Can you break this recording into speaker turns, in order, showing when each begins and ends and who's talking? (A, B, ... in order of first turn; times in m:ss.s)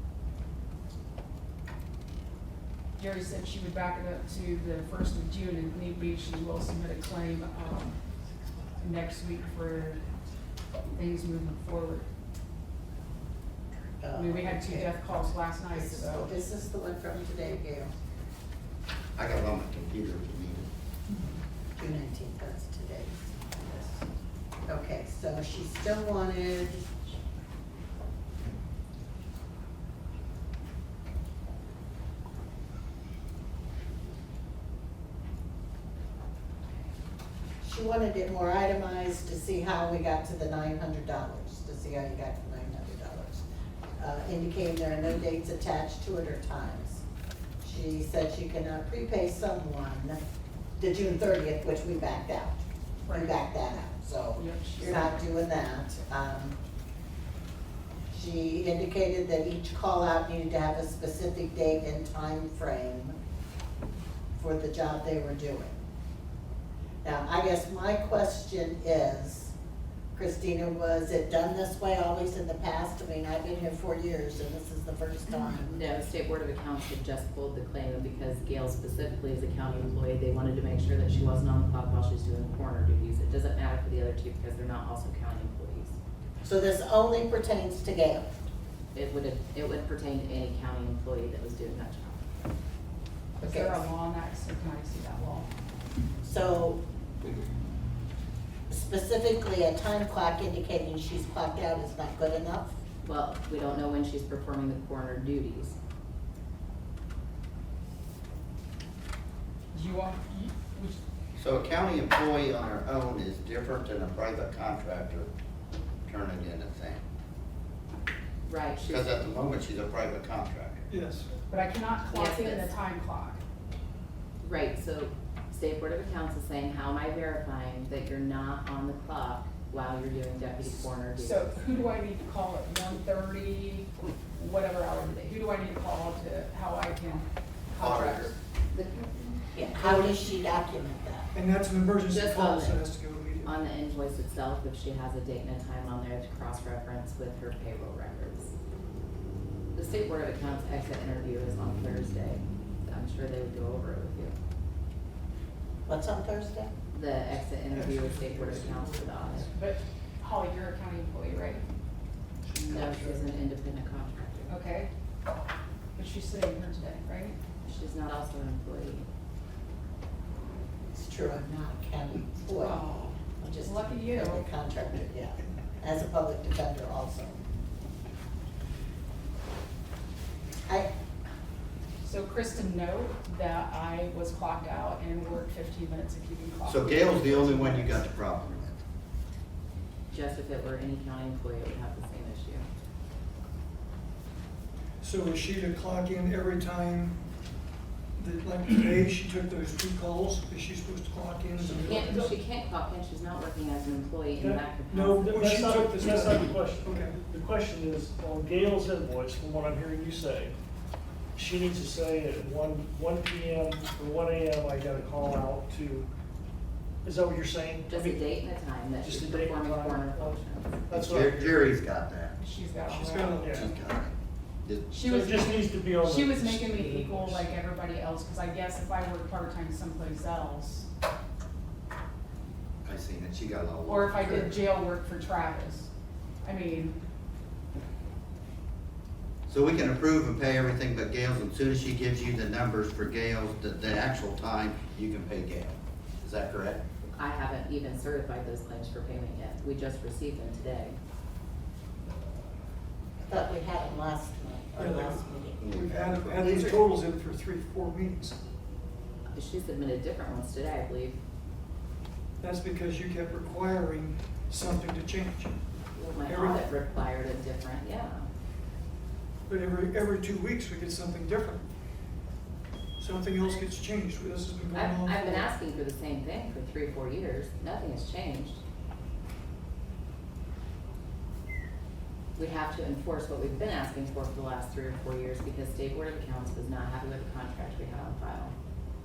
0:03.0-0:08.0 A
0:08.8-0:10.0 A
0:10.9-0:12.1 A
0:14.0-0:15.0 B
0:14.1-0:16.4 A
0:15.7-0:17.9 B
0:19.2-0:20.7 C
0:21.8-0:24.0 B
0:24.6-0:26.9 B
0:37.6-0:43.4 B
0:44.0-0:47.0 B
0:47.6-0:50.2 B
0:50.8-0:56.6 B
0:53.0-0:53.4 A
0:54.4-0:55.1 A
0:58.1-1:03.2 B
1:04.4-1:05.8 B
1:07.0-1:09.5 B
1:10.1-1:15.8 B
1:15.4-1:26.0 D
1:26.4-1:28.3 B
1:28.9-1:32.2 D
1:33.4-1:35.5 A
1:33.4-1:33.8 B
1:36.2-1:36.8 B
1:38.7-1:42.8 B
1:43.0-1:45.8 D
1:49.7-1:51.0 A
1:51.4-1:55.3 C
1:56.0-1:57.0 C
1:58.4-1:59.0 D
1:58.8-2:00.8 C
2:00.9-2:01.3 E
2:01.5-2:03.4 A
2:02.1-2:02.7 D
2:04.4-2:11.5 D
2:11.2-2:18.3 A
2:17.8-2:18.3 C
2:18.7-2:19.4 D
2:19.5-2:21.3 B
2:21.3-2:23.6 E
2:22.1-2:22.8 D
2:23.4-2:28.5 D
2:29.7-2:34.4 D
2:35.9-2:36.7 B
2:36.9-2:39.5 D
2:37.7-2:39.5 E
2:39.5-2:41.6 A
2:42.5-2:43.3 E
2:42.5-2:44.5 D
2:44.5-2:44.9 A
2:45.9-2:47.4 A
2:47.6-2:49.1 D
2:50.9-2:57.4 B
2:52.5-2:54.5 A
3:02.0-3:08.0 A
3:06.6-3:08.8 C
3:10.1-3:12.6 D
3:15.0-3:17.2 E
3:18.2-3:22.2 E
3:21.7-3:25.3 D
3:24.9-3:27.2 E
3:25.2-3:30.5 F
3:31.3-3:36.1 F
3:37.0-3:38.2 F
3:37.9-3:40.8 D
3:39.0-3:41.7 F
3:40.9-3:42.4 C
3:42.4-3:43.6 A
3:42.8-3:43.6 E
3:43.4-3:43.7 F
3:43.6-3:44.9 C
3:44.9-3:50.9 A
3:45.0-3:47.5 F
3:52.8-3:54.2 C
3:53.8-3:55.9 A
3:56.4-3:57.0 A
3:59.5-4:06.8 C
4:07.1-4:11.0 D
4:13.2-4:15.6 B
4:14.8-4:18.4 E
4:15.6-4:16.7 C
4:16.4-4:16.9 F
4:19.3-4:21.2 D
4:22.4-4:25.6 E
4:26.0-4:28.3 D
4:26.2-4:26.7 E
4:29.5-4:31.6 E
4:33.0-4:35.5 E
4:34.7-4:38.6 D
4:42.4-4:48.5 D